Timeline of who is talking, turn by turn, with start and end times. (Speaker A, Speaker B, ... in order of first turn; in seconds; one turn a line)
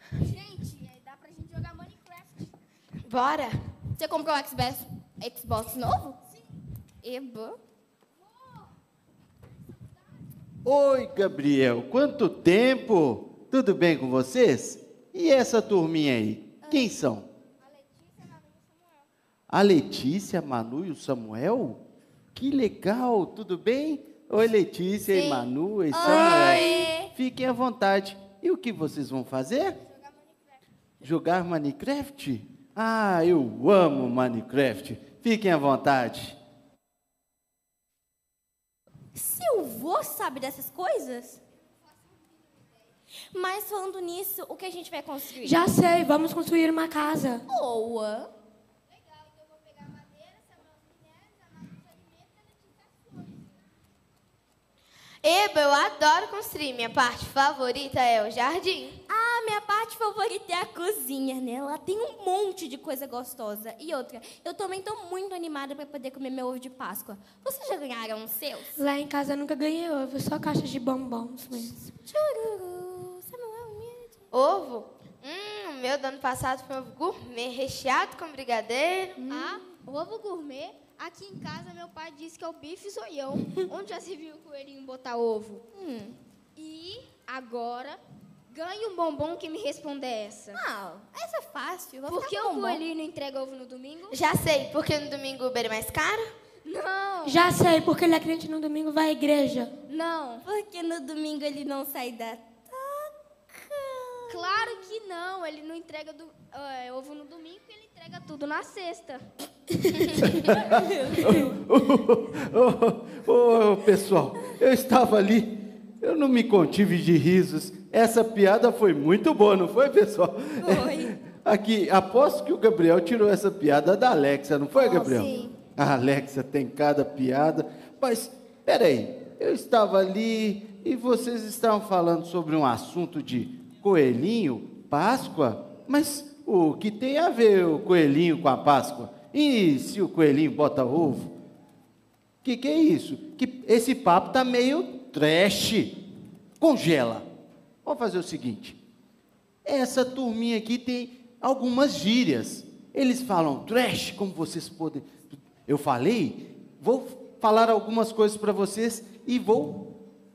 Speaker A: 0.3-2.3
Speaker B: 3.1-3.6
Speaker C: 4.0-6.2
Speaker C: 7.0-7.6
Speaker D: 10.7-17.3
Speaker D: 19.5-21.8
Speaker D: 22.4-29.8
Speaker B: 25.1-26.9
Speaker C: 25.9-27.1
Speaker D: 31.0-36.4
Speaker C: 39.1-41.4
Speaker C: 43.3-45.6
Speaker E: 45.4-47.5
Speaker C: 47.5-48.3
Speaker B: 55.2-59.0
Speaker C: 59.1-68.8
Speaker E: 68.8-71.8
Speaker C: 71.8-74.1
Speaker B: 74.3-79.2
Speaker C: 79.3-79.6
Speaker A: 79.3-85.7
Speaker C: 85.8-86.2
Speaker A: 86.6-90.6
Speaker C: 90.5-92.8
Speaker A: 92.1-94.2
Speaker B: 94.1-96.3
Speaker A: 96.7-97.4
Speaker E: 97.2-99.7
Speaker A: 99.9-100.4
Speaker C: 100.4-103.1
Speaker C: 103.7-104.5
Speaker A: 104.3-109.3
Speaker C: 110.3-111.6
Speaker D: 110.5-141.3
Speaker C: 120.6-121.1
Speaker A: 124.8-125.4
Speaker D: 142.4-146.0
Speaker D: 146.6-147.3
Speaker D: 147.8-148.8
Speaker D: 149.7-159.9